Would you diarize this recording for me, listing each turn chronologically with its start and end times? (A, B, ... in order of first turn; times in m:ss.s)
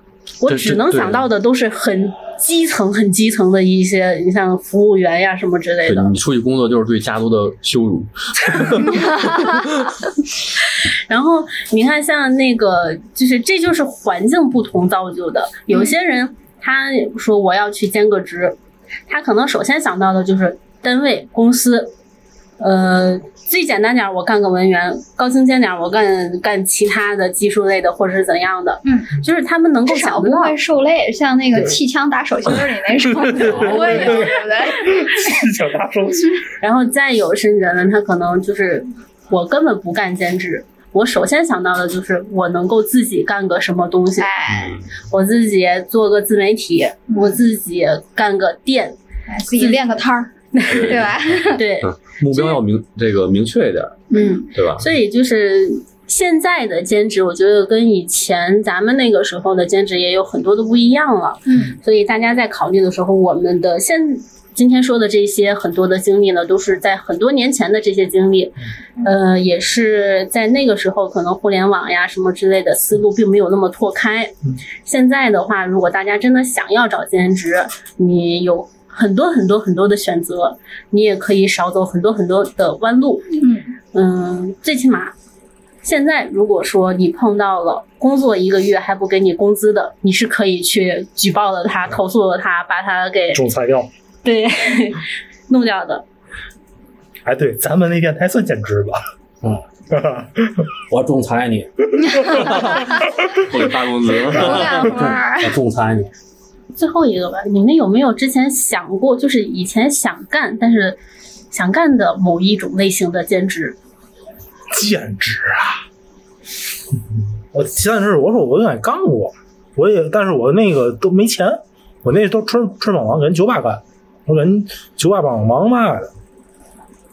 0:00.4-0:06.2 A
0:00.4-0:01.3 B
0:05.9-0:09.7 B
0:11.1-0:18.6 A
0:19.1-0:21.9 A
0:22.6-0:30.6 A
0:28.9-0:29.1 C
0:29.9-0:35.3 C
0:33.1-0:36.4 D
0:36.6-0:44.3 A
0:44.2-0:44.8 C
0:44.5-0:44.9 B
0:45.1-0:49.0 A
0:47.1-0:47.4 C
0:49.3-0:51.6 C
0:49.6-0:49.8 A
0:50.5-0:51.0 A
0:50.7-0:54.9 B
0:51.6-0:52.6 A
0:54.1-0:54.5 C
0:54.1-1:23.3 A
1:01.5-1:01.8 C
1:23.4-1:23.7 C
1:23.9-1:25.1 A
1:25.8-1:33.4 A
1:33.3-1:33.9 D
1:34.2-1:36.0 A
1:37.2-1:39.0 D
1:39.9-1:40.7 D
1:40.9-1:41.7 E
1:42.0-1:42.8 D
1:42.4-1:44.9 B
1:44.3-1:45.5 C
1:44.3-1:46.1 E
1:46.8-1:51.0 A
1:51.5-1:53.8 A
1:54.7-1:55.8 D
1:57.5-2:06.1 D